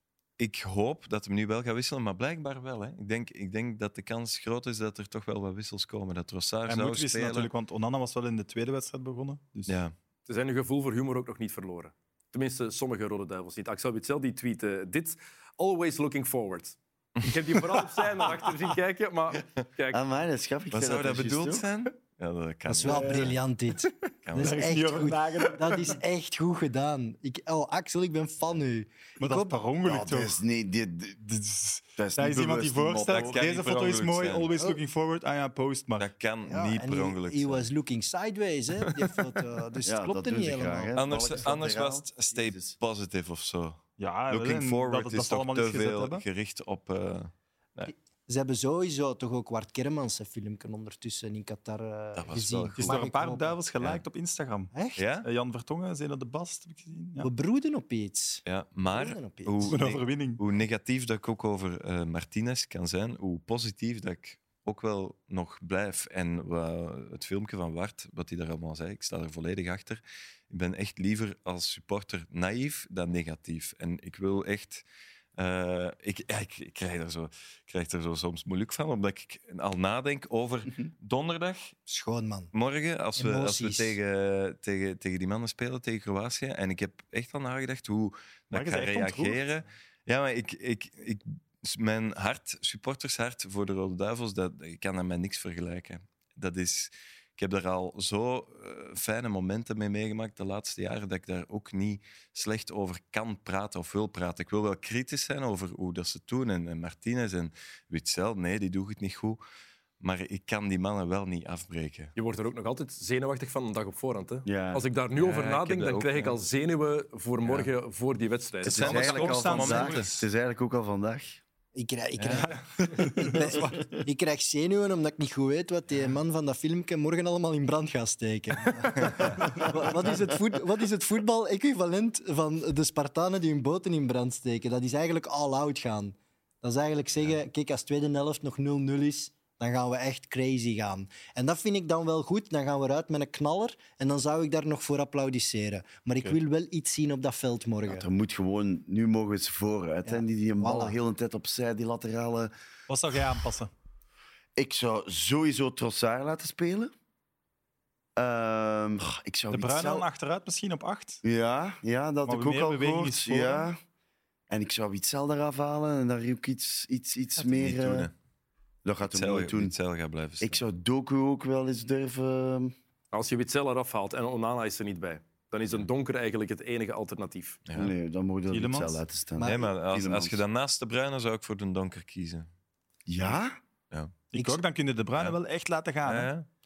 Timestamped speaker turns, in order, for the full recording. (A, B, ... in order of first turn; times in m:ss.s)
0:00.4-0:07.5 A
0:06.7-0:09.8 B
0:09.7-0:09.9 A
0:10.3-0:20.0 C
0:19.9-0:21.6 D
0:20.7-0:23.3 A
0:22.7-0:29.6 E
0:22.8-0:23.3 B
0:24.2-0:24.6 A
0:24.3-0:25.8 B
0:29.2-0:30.4 B
0:29.8-0:31.2 D
0:31.2-0:36.1 B
0:32.0-0:33.4 D
0:33.1-0:34.6 A
0:36.0-0:37.7 A
0:36.4-0:41.0 E
0:39.8-0:42.8 D
0:40.9-0:47.9 A
0:44.0-0:46.2 B
0:47.9-0:53.6 E
0:52.2-0:52.9 A
0:52.8-0:57.3 B
0:54.7-0:55.0 E
0:55.0-0:55.3 A
0:57.2-0:59.8 E
0:58.4-1:14.8 A
0:59.6-1:00.4 B
1:15.4-1:21.8 A
1:21.9-1:22.5 E
1:22.5-1:49.4 A
1:23.2-1:24.0 E
1:28.5-1:29.4 B
1:50.0-1:52.1 A
1:52.2-1:59.2 C
1:54.4-1:54.8 D
1:55.2-1:56.4 A
1:57.4-1:57.7 A
1:58.6-2:00.2 A
1:58.6-2:01.4 D
1:58.9-2:00.1 B
2:01.7-2:28.1 E
2:02.2-2:02.5 A
2:02.8-2:03.3 B
2:27.8-2:32.5 D
2:30.1-2:31.0 E
2:32.9-2:33.7 B
2:34.6-2:36.9 D
2:38.2-2:40.1 D
2:39.5-2:41.2 B
2:41.2-2:43.8 D
2:42.2-2:43.7 B
2:44.5-2:48.1 D
2:47.4-2:48.1 A
2:48.8-2:49.7 D
2:49.0-2:50.6 A
2:50.4-2:52.7 D
2:53.1-2:57.6 C
2:57.7-2:57.9 A
2:57.7-3:00.4 D
2:58.5-2:59.0 B
2:59.4-2:59.7 E
2:59.4-3:02.5 A
3:03.1-3:03.6 D
3:03.9-3:04.2 A
3:04.3-3:06.3 B
3:04.3-3:04.6 E
3:06.0-3:06.5 A